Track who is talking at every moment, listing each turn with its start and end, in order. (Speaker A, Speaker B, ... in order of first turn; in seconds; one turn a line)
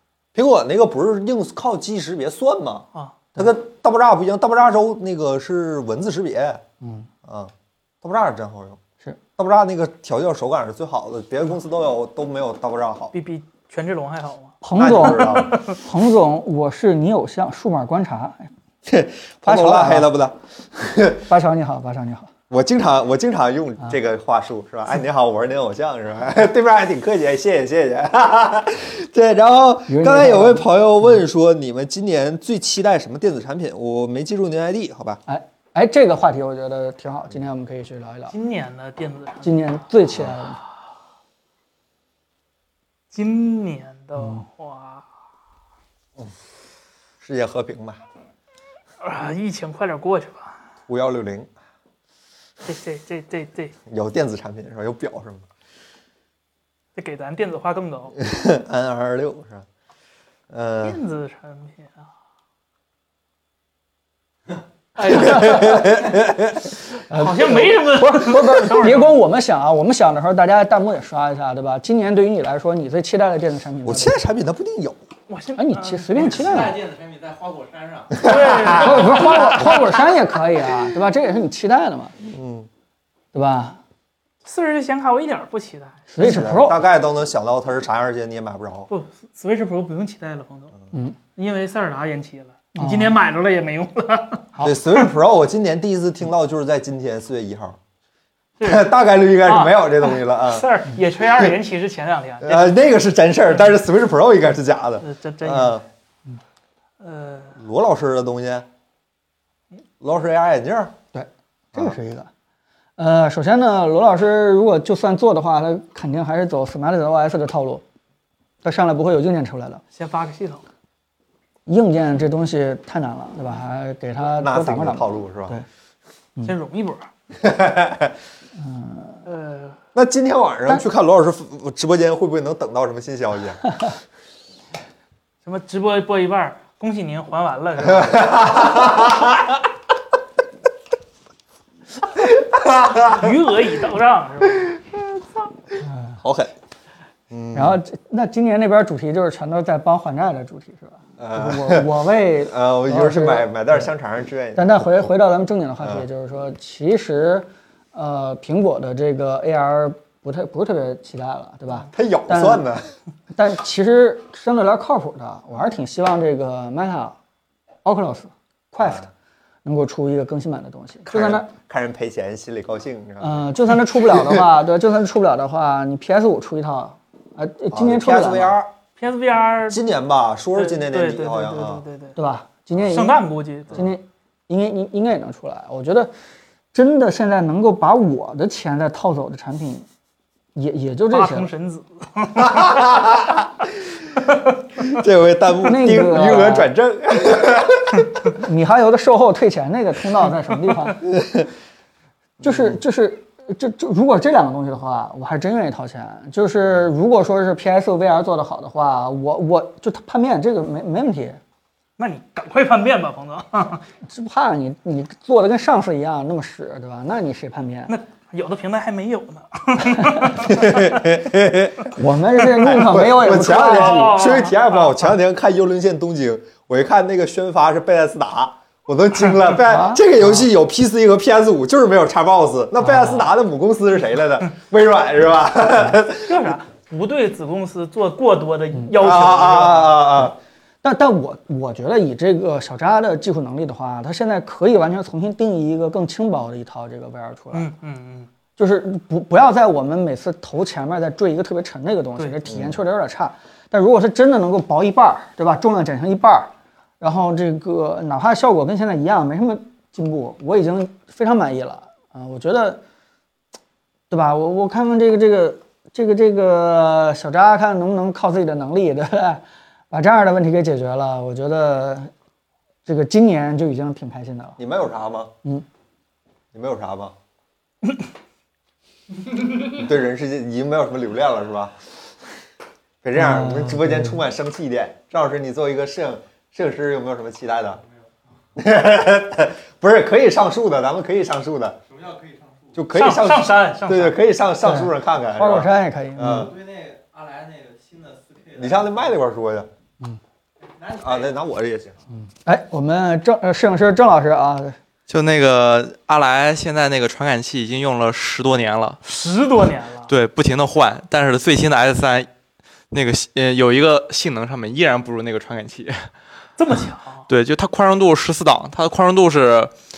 Speaker A: 0.3-6.6
Speaker B: 6.8-7.1
Speaker A: 7.2-8.8
Speaker A: 9.4-13.1
Speaker C: 13.1-15.8
Speaker B: 14.6-18.5
Speaker A: 14.7-15.6
Speaker A: 18.8-21.3
Speaker B: 19.4-20.1
Speaker B: 21.3-22.3
Speaker A: 22.5-35.2
Speaker B: 29.9-30.7
Speaker B: 35.3-38.3
Speaker C: 38.3-39.6
Speaker B: 39.4-40.6
Speaker C: 43.1-45.0
Speaker A: 47.2-48.0
Speaker C: 49.0-50.6
Speaker A: 50.9-51.5
Speaker C: 52.6-53.7
Speaker A: 53.9-55.5
Speaker C: 57.0-58.1
Speaker A: 58.2-59.6
Speaker A: 60.5-61.0
Speaker C: 60.8-62.0
Speaker C: 65.0-66.0
Speaker B: 65.0-66.1
Speaker A: 65.0-66.7
Speaker B: 67.1-74.2
Speaker C: 67.1-69.2
Speaker A: 73.8-75.0
Speaker C: 75.3-76.7
Speaker B: 75.5-76.8
Speaker D: 76.2-78.4
Speaker C: 78.2-79.5
Speaker A: 78.3-79.0
Speaker B: 78.6-82.1
Speaker A: 82.2-82.7
Speaker B: 83.3-83.8
Speaker C: 84.4-86.0
Speaker B: 86.1-86.8
Speaker A: 86.2-88.9
Speaker C: 88.9-90.7
Speaker C: 91.3-95.1
Speaker B: 92.8-93.2
Speaker A: 94.6-97.8
Speaker C: 98.6-98.9
Speaker A: 98.6-100.7
Speaker C: 99.4-102.8
Speaker A: 102.4-105.8
Speaker C: 105.0-105.8
Speaker C: 107.0-107.5
Speaker A: 107.5-108.7
Speaker A: 110.0-111.0
Speaker B: 111.1-112.3
Speaker B: 113.0-117.8
Speaker B: 118.6-119.8
Speaker C: 119.9-120.6
Speaker B: 121.7-125.7
Speaker A: 124.4-125.5
Speaker C: 126.4-127.1
Speaker A: 127.4-128.1
Speaker B: 128.6-129.2
Speaker C: 129.3-129.8
Speaker A: 129.9-133.6
Speaker C: 135.4-138.3
Speaker A: 137.8-139.6
Speaker A: 142.2-143.3
Speaker C: 143.0-144.7
Speaker A: 144.7-145.0
Speaker B: 145.8-146.2
Speaker A: 146.2-146.5
Speaker A: 147.3-147.8
Speaker B: 147.6-153.9
Speaker A: 151.2-155.1
Speaker B: 154.6-162.6
Speaker A: 161.9-162.9
Speaker B: 163.3-167.2
Speaker B: 167.8-169.1
Speaker A: 168.8-169.1
Speaker B: 169.6-171.5
Speaker A: 171.1-174.4
Speaker B: 173.2-178.6
Speaker A: 177.7-178.7
Speaker C: 179.0-179.8
Speaker A: 179.7-181.8
Speaker C: 180.6-182.2
Speaker B: 182.2-183.2
Speaker C: 182.9-183.8
Speaker B: 183.7-186.1
Speaker B: 186.7-189.8
Speaker B: 190.6-191.5
Speaker C: 191.1-193.1
Speaker A: 192.4-193.5
Speaker A: 194.8-198.2
Speaker B: 195.6-196.7
Speaker B: 198.3-201.0
Speaker A: 201.1-201.5
Speaker A: 202.4-202.8
Speaker B: 202.4-211.4
Speaker C: 212.0-213.8
Speaker B: 214.1-217.9
Speaker C: 217.9-221.1
Speaker A: 220.4-221.9
Speaker B: 221.9-224.2
Speaker A: 222.5-236.5
Speaker C: 223.3-225.1
Speaker B: 229.5-230.4
Speaker B: 232.8-233.3
Speaker C: 236.2-240.0
Speaker A: 238.9-240.3
Speaker B: 240.8-247.7
Speaker C: 247.5-248.3
Speaker B: 248.6-262.8
Speaker A: 252.5-252.8
Speaker B: 264.1-272.1
Speaker B: 272.9-274.6
Speaker A: 274.6-275.3
Speaker A: 276.5-277.1
Speaker A: 279.6-281.7
Speaker A: 283.0-287.8
Speaker B: 283.1-284.2
Speaker D: 287.8-288.1
Speaker A: 288.6-291.8
Speaker D: 291.9-292.8
Speaker A: 292.7-296.5
Speaker C: 292.9-294.2
Speaker B: 294.6-296.5
Speaker D: 296.2-299.1
Speaker A: 298.6-299.7
Speaker D: 300.6-301.4
Speaker A: 301.0-301.9
Speaker B: 302.2-304.8
Speaker E: 305.1-309.0
Speaker C: 309.1-310.1
Speaker E: 310.1-312.3
Speaker E: 312.9-316.1
Speaker C: 316.6-317.3
Speaker E: 317.3-319.7